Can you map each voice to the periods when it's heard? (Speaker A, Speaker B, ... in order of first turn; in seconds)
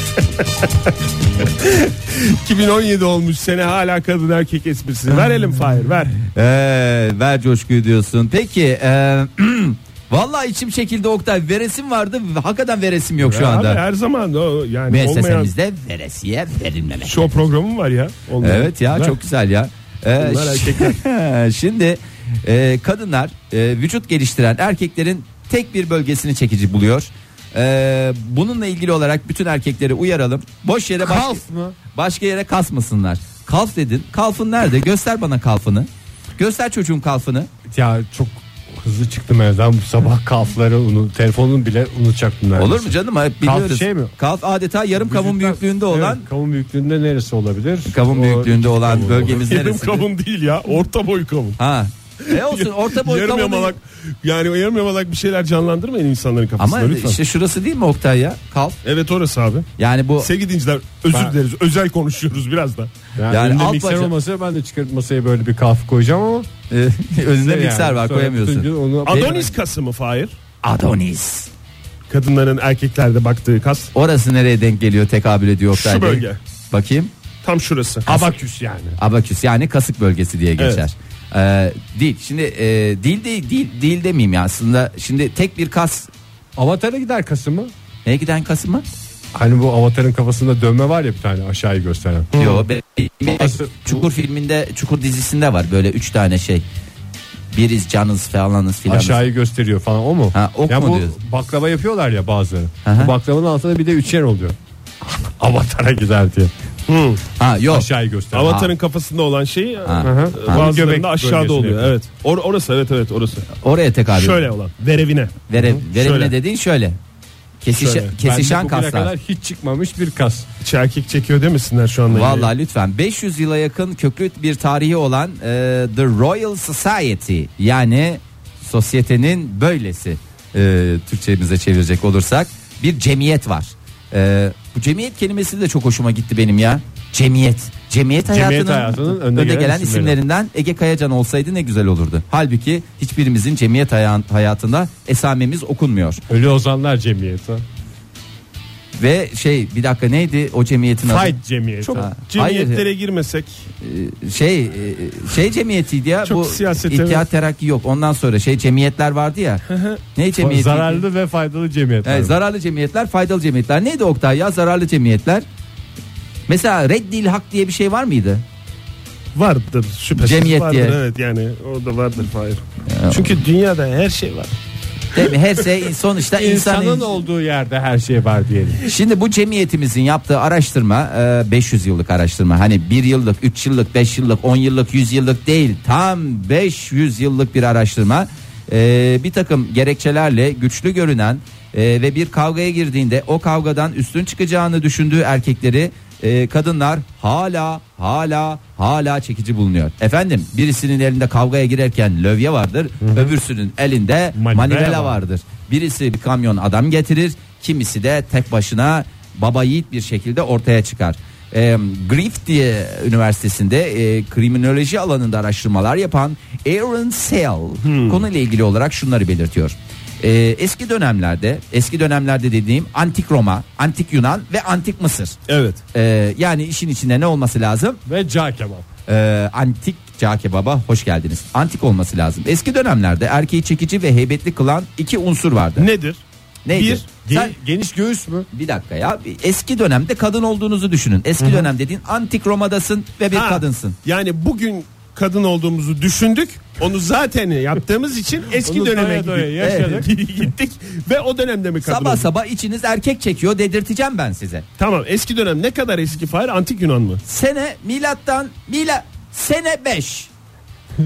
Speaker A: 1.6-6.2, 13.2-15.5, 17.0-19.2, 20.2-21.0, 49.0-51.6, 52.2-57.2, 58.8-62.9, 69.1-70.4, 72.1-73.9, 75.7-76.4, 77.4-78.1, 80.6-80.8, 106.9-107.2, 108.3-113.5, 114.1-116.3, 117.7-118.1, 120.6-122.5, 152.0-153.7, 156.2-157.2, 159.7-160.0, 169.3-174.5, 217.8-218.2, 225.5-225.8, 235.8-237.1, 243.3-252.3, 254.8-257.2
Speaker B: 6.3-13.8, 14.9-17.3, 18.4-37.5, 42.6-46.2, 47.9-50.1, 51.6-53.8, 56.6-58.8, 59.8-60.3, 63.3-64.1, 66.7-69.4, 70.6-71.5, 73.9-77.1, 79.0-86.1, 88.0-88.8, 92.4-96.6, 97.5-99.2, 100.3-101.2, 102.8-103.1, 107.4-107.9, 108.4-108.7, 109.9-110.7, 113.6-114.4, 115.5-117.0, 117.6-119.1, 122.1-146.2, 149.0-152.8, 153.8-159.6, 160.2-161.0, 162.1-165.4, 166.5-168.4, 170.2-171.0, 172.9-173.4, 175.1-177.2, 178.8-225.4, 225.9-228.0, 229.1-235.9, 236.7-237.6, 238.5-244.0, 249.6-249.9, 251.8-254.7, 257.2-260.3
Speaker C: 31.0-31.8, 37.7-44.1, 45.0-49.5, 63.2-66.5, 67.4-69.5, 78.1-79.0, 86.6-87.7, 89.3-92.6, 93.3-94.0, 98.9-106.5, 107.7-108.6, 110.0-112.0, 118.2-120.5, 138.3-140.2, 146.3-147.6, 151.0-152.1, 160.4-162.4, 176.3-178.9, 203.0-203.3, 204.3-205.2, 228.1-228.9, 237.2-238.5, 248.6-250.1